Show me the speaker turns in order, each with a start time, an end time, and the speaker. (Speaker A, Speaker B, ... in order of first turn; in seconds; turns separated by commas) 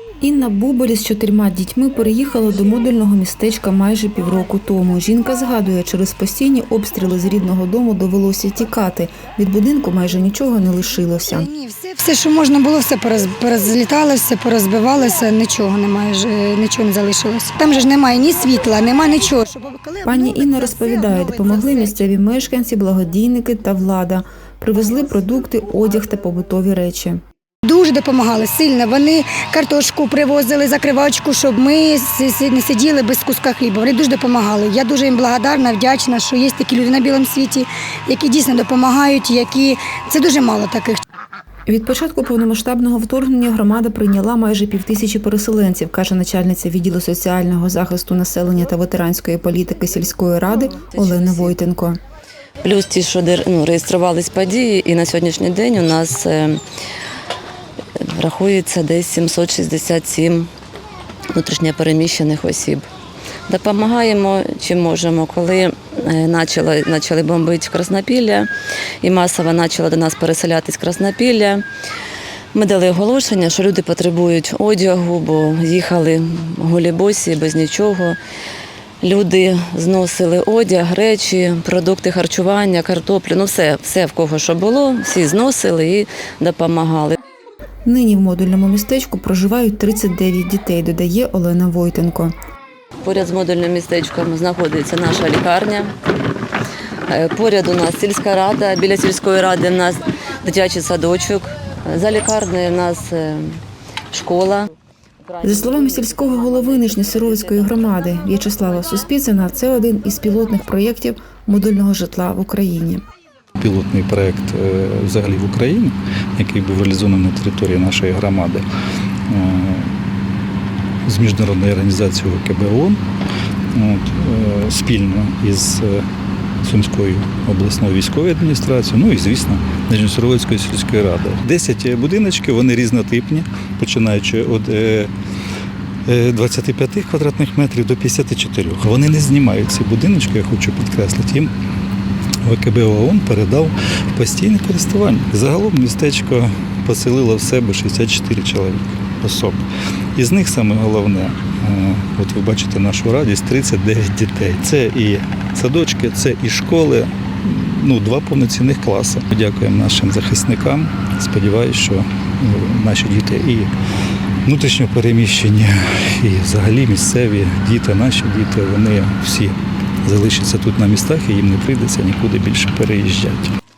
Speaker A: 0.2-11.5, Speaker B: 11.1-22.1, Speaker A: 20.0-27.2, Speaker B: 27.6-41.0, Speaker A: 41.7-52.0, Speaker C: 50.7-51.6, Speaker C: 52.6-56.6, Speaker C: 58.1-60.5, Speaker C: 61.3-62.9, Speaker C: 63.5-68.5, Speaker C: 69.0-71.7, Speaker C: 72.5-78.2, Speaker C: 79.0-87.2, Speaker A: 87.9-92.3, Speaker C: 93.0-95.9, Speaker C: 97.1-103.6, Speaker C: 104.1-104.7, Speaker C: 105.3-107.8, Speaker A: 105.4-113.0, Speaker D: 113.6-118.7, Speaker D: 119.3-119.9, Speaker D: 121.1-123.0, Speaker D: 123.7-126.1, Speaker D: 126.6-135.1, Speaker D: 136.1-141.5, Speaker D: 142.4-149.6, Speaker D: 150.2-163.7, Speaker D: 164.4-173.5